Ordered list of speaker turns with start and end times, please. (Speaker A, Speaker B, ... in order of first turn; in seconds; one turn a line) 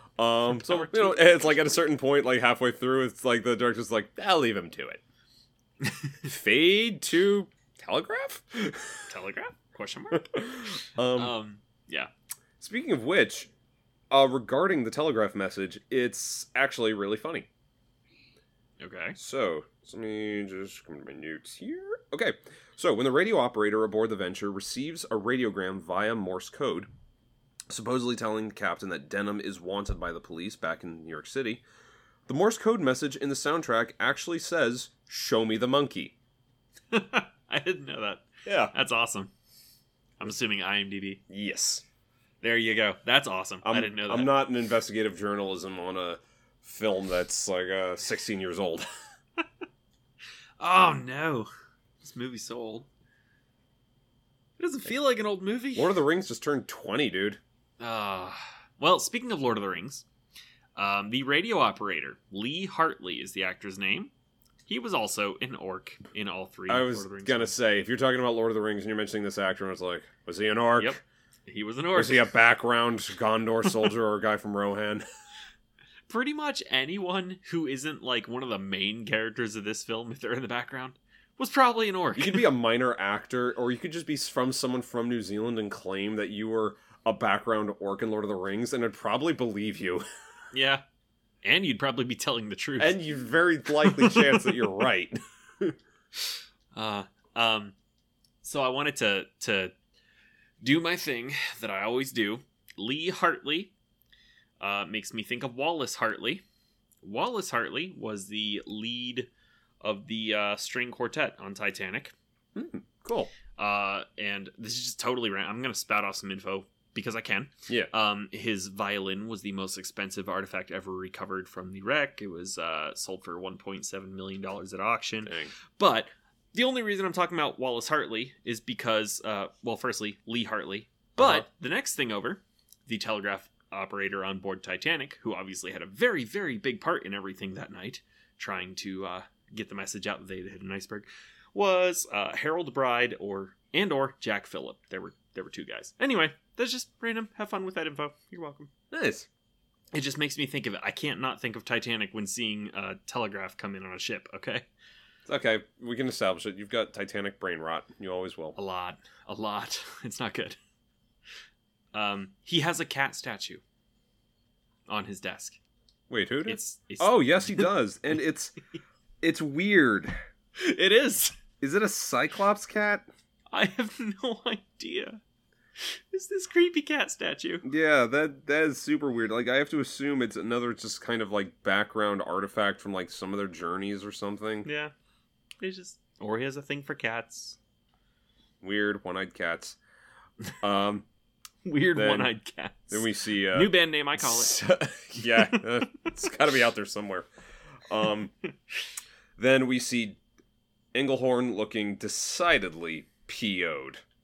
Speaker A: 0.2-5.0
Speaker B: 0.5-1.6
Speaker B: 5.8-6.2
Speaker A: 6.2-9.0
Speaker B: 9.1-12.1
Speaker A: 10.1-11.3
Speaker A: 12.6-13.5
Speaker A: 14.1-17.5
Speaker B: 18.8-19.2
Speaker A: 19.2-26.9
Speaker A: 27.7-31.6
Speaker A: 32.3-36.1
Speaker B: 36.9-39.3
Speaker A: 38.5-38.7
Speaker B: 40.2-41.2
Speaker A: 41.3-41.8
Speaker B: 42.4-44.4
Speaker A: 43.6-48.9
Speaker B: 50.6-51.5
Speaker B: 52.0-52.9
Speaker B: 54.6-56.0
Speaker A: 55.8-57.4
Speaker B: 57.8-60.0
Speaker B: 60.8-64.1
Speaker B: 64.7-67.5
Speaker A: 66.7-71.0
Speaker B: 70.8-72.3
Speaker A: 71.9-75.0
Speaker B: 76.1-82.5
Speaker A: 82.2-90.0
Speaker B: 90.5-90.8
Speaker B: 91.4-93.0
Speaker A: 92.8-95.7
Speaker B: 93.8-94.5
Speaker B: 96.7-97.7
Speaker B: 98.4-99.7
Speaker B: 100.6-103.7
Speaker B: 104.6-106.4
Speaker B: 107.0-109.3
Speaker B: 109.8-112.1
Speaker A: 112.5-113.3
Speaker B: 113.5-148.7
Speaker A: 125.2-125.5
Speaker A: 131.2-131.4
Speaker A: 148.9-149.3
Speaker B: 149.9-154.7
Speaker A: 155.3-158.6
Speaker B: 158.6-160.6
Speaker B: 161.9-163.6
Speaker B: 164.9-165.6
Speaker A: 166.1-168.5
Speaker B: 166.5-167.7
Speaker A: 169.2-170.1
Speaker B: 170.6-171.3
Speaker A: 171.6-173.1
Speaker B: 173.5-175.2
Speaker B: 175.8-177.6
Speaker A: 177.6-184.7
Speaker B: 184.6-184.9
Speaker B: 185.6-187.6
Speaker A: 188.6-189.8
Speaker A: 190.6-191.1
Speaker B: 191.6-194.6
Speaker A: 191.9-192.3
Speaker A: 192.9-197.3
Speaker B: 195.2-196.1
Speaker A: 197.9-198.3
Speaker A: 199.4-200.2
Speaker A: 200.9-204.0